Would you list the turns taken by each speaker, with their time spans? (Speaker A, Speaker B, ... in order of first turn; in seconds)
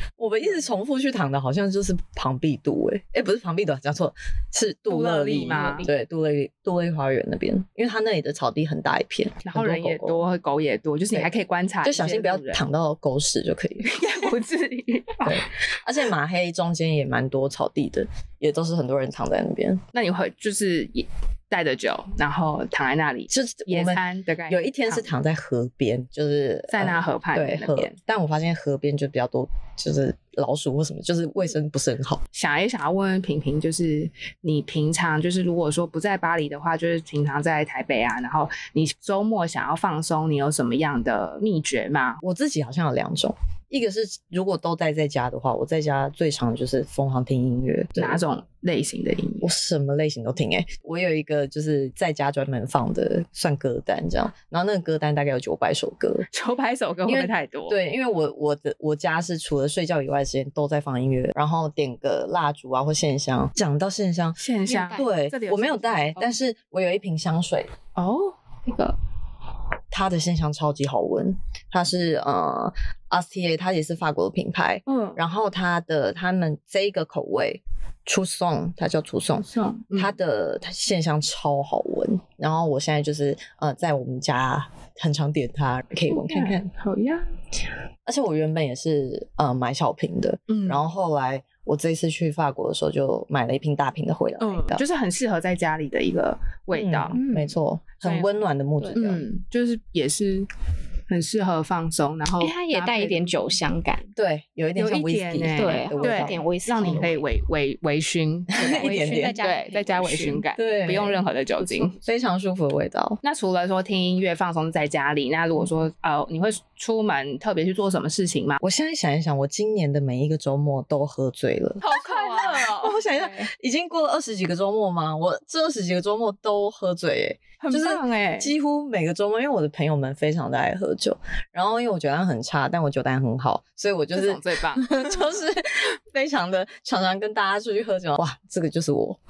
Speaker A: 0.2-10.2, 11.8-14.0, 15.2-19.8, 23.3-32.2, 42.2-48.2, 49.4-56.3, 57.1-67.7, 69.9-86.7, 88.1-94.8, 96.7-99.2, 104.2-107.0, 108.6-109.4, 110.6-111.2, 112.0-113.2, 118.6-139.2
Speaker B: 4.9-5.9, 9.4-12.6, 13.8-15.4, 19.9-25.1, 26.7-27.9, 32.3-42.2, 48.0-49.5, 56.3-57.8, 64.4-66.3, 68.0-68.9, 74.9-75.2, 79.5-80.1, 86.1-87.3, 90.5-90.8, 94.4-97.2, 98.0-98.3, 99.0-100.5, 101.1-103.3, 104.8-112.0, 113.2-118.6, 121.8-123.5, 127.6-128.5, 134.2-135.0
Speaker C: 5.5-5.9, 64.7-65.0, 97.1-97.6, 102.4-104.1, 105.6-107.2, 108.6-110.5